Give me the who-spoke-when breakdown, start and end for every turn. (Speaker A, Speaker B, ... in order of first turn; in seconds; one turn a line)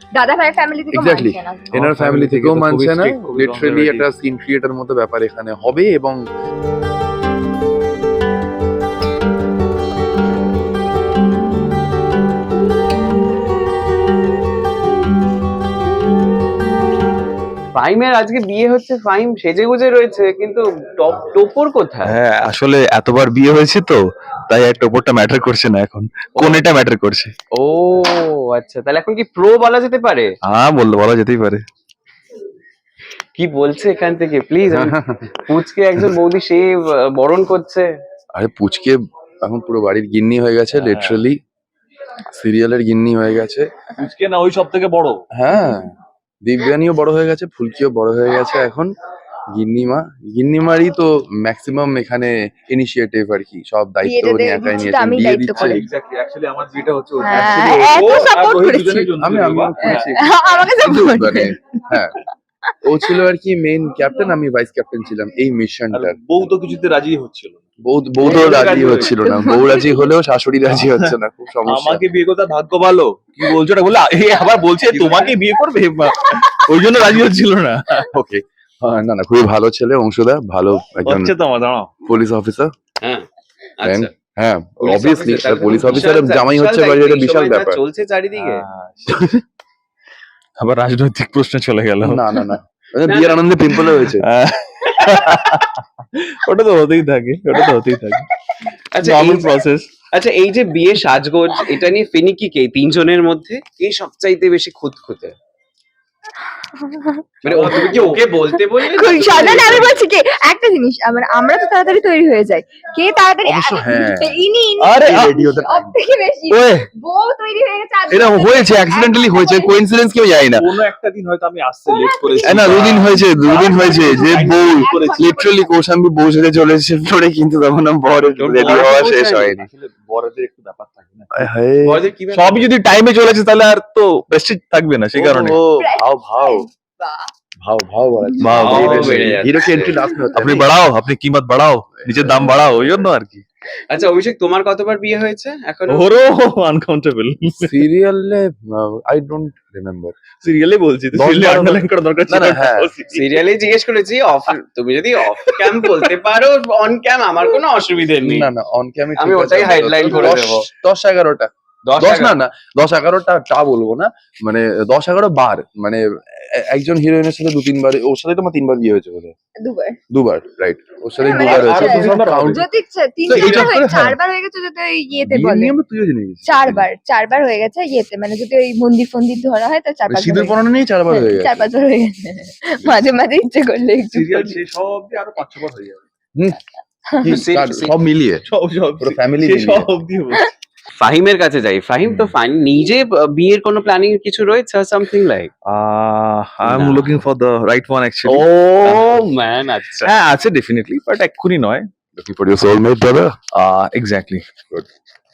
Speaker A: 0.2-1.7
Speaker B: 0.9-6.2
Speaker C: 1.7-4.1
Speaker D: 17.7-22.2
Speaker C: 22.1-27.3
Speaker D: 26.4-26.6
Speaker D: 27.6-30.4
Speaker C: 30.4-31.6
Speaker D: 33.4-37.9
Speaker B: 34.7-35.4
Speaker B: 38.4-41.4
Speaker C: 40.7-41.3
Speaker B: 42.3-43.7
Speaker C: 44.0-45.2
Speaker B: 45.4-48.9
Speaker B: 49.5-55.8
Speaker A: 54.0-55.9
Speaker C: 55.5-60.2
Speaker A: 57.2-59.1
Speaker B: 59.2-60.2
Speaker A: 59.8-62.0
Speaker B: 60.8-62.2
Speaker B: 62.8-66.2
Speaker C: 65.9-67.6
Speaker B: 67.8-72.1
Speaker C: 68.2-69.2
Speaker D: 68.3-69.1
Speaker A: 69.2-70.1
Speaker C: 70.7-71.1
Speaker C: 71.7-78.1
Speaker B: 78.1-81.4
Speaker C: 81.0-81.9
Speaker B: 82.0-82.7
Speaker D: 83.8-84.1
Speaker B: 83.8-87.8
Speaker D: 84.8-88.6
Speaker C: 88.4-89.4
Speaker C: 90.6-92.5
Speaker B: 92.0-94.2
Speaker D: 93.1-93.5
Speaker C: 93.8-98.3
Speaker D: 98.9-99.6
Speaker C: 99.0-99.9
Speaker D: 100.1-105.3
Speaker A: 106.5-107.7
Speaker D: 107.4-110.0
Speaker C: 107.5-108.2
Speaker B: 107.6-107.8
Speaker A: 108.7-119.8
Speaker B: 113.5-116.0
Speaker C: 115.0-115.4
Speaker B: 116.6-116.8
Speaker B: 118.1-120.7
Speaker C: 120.5-125.2
Speaker A: 121.9-125.7
Speaker B: 122.5-129.7
Speaker D: 128.4-129.6
Speaker C: 128.6-131.5
Speaker B: 131.3-132.0
Speaker D: 131.8-132.7
Speaker C: 132.3-135.6
Speaker B: 135.1-136.7
Speaker A: 135.8-137.3
Speaker B: 137.6-140.7
Speaker A: 138.4-138.7
Speaker C: 138.4-139.4
Speaker D: 138.6-140.0
Speaker C: 140.3-143.4
Speaker B: 142.0-142.7
Speaker D: 143.9-146.1
Speaker C: 145.9-147.8
Speaker B: 147.6-150.2
Speaker C: 150.4-153.3
Speaker B: 151.1-152.9
Speaker D: 153.1-158.5
Speaker C: 155.4-156.1
Speaker B: 158.2-169.4
Speaker D: 159.2-160.7
Speaker D: 161.9-162.4
Speaker A: 169.6-170.0
Speaker B: 170.1-172.6
Speaker A: 171.2-175.7
Speaker C: 171.3-172.7
Speaker B: 173.3-174.2
Speaker C: 173.4-173.7
Speaker B: 175.2-176.9
Speaker A: 176.5-184.6
Speaker B: 180.1-181.7
Speaker C: 184.1-186.1
Speaker A: 187.1-187.4
Speaker B: 187.2-188.4
Speaker D: 187.2-187.9
Speaker C: 188.5-190.5
Speaker B: 189.0-189.9
Speaker D: 191.0-195.5
Speaker C: 192.1-192.3
Speaker C: 195.7-199.0
Speaker D: 196.6-197.2
Speaker D: 198.2-200.1
Speaker C: 200.0-201.9
Speaker B: 202.2-203.4
Speaker C: 203.6-204.5